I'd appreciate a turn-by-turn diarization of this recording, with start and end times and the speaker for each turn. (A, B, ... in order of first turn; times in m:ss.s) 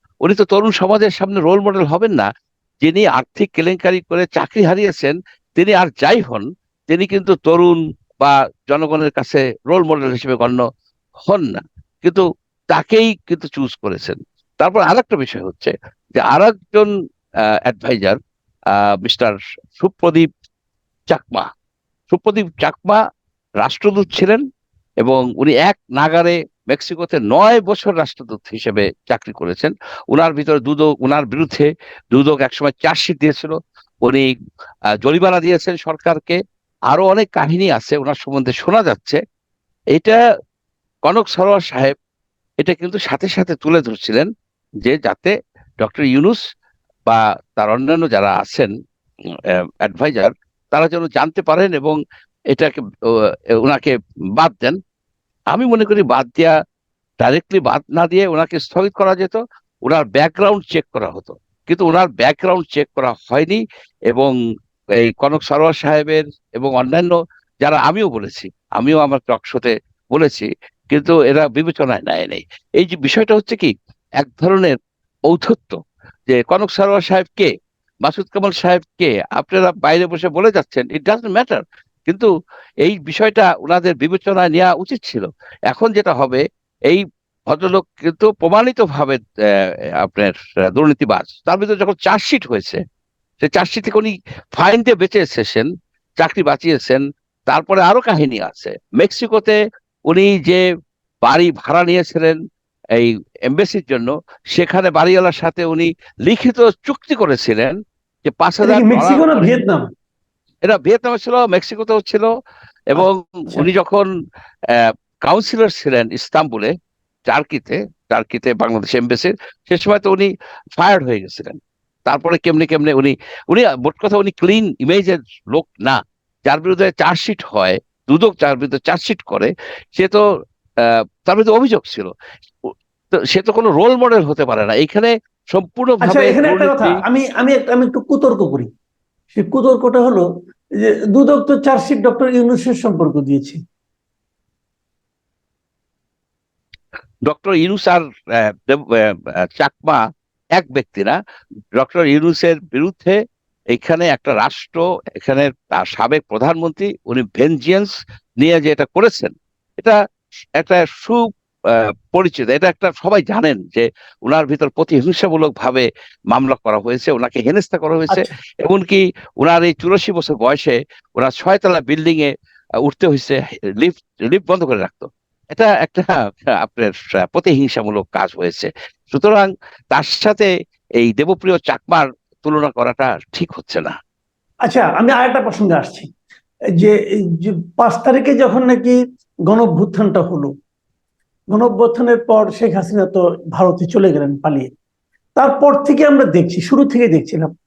0:00.2-0:02.3 A
0:02.8-0:10.6 A
0:11.2-0:16.9 A
0:17.6-0:18.2 A
0:18.7-0:20.3 A
0:21.1-0:21.5 A
0:22.1-0:23.0 A
0:23.6-0:24.4 A
0:25.0-0:34.3 A
0:35.0-0:36.4 A
0:36.9-0:39.2 A
0:39.9-0:40.2 A
0:41.0-0:41.9 A
0:42.6-0:44.3 A
0:44.8-0:46.4 A
0:47.0-0:48.7 A
0:49.5-0:52.0 A
0:52.5-0:54.8 A
0:55.5-0:56.5 A
0:57.2-1:04.3 A
1:05.0-1:14.8 A
1:15.3-1:15.8 A
1:16.3-1:17.5 A
1:18.0-1:22.3 A
1:22.8-1:32.8 A
1:33.4-1:35.7 A
1:36.2-1:39.6 A
1:40.1-1:40.6 A
1:41.2-1:42.4 A
1:42.9-1:49.5 A
1:48.6-1:49.8 B
1:50.6-1:52.3 A
1:52.9-1:54.1 A
1:53.0-1:53.6 B
1:54.7-1:56.7 A
1:57.3-2:10.2 A
2:10.8-2:12.1 A
2:12.6-2:17.0 A
2:16.0-2:18.7 B
2:19.3-2:20.2 B
2:20.8-2:23.6 B
2:27.2-2:30.0 A
2:30.6-2:31.2 A
2:31.8-2:33.2 A
2:33.7-2:40.0 A
2:40.6-2:52.3 A
2:52.8-3:03.9 A
3:04.6-3:06.1 B
3:06.8-3:09.0 B
3:09.5-3:10.5 B
3:11.5-3:14.7 B
3:15.4-3:17.5 B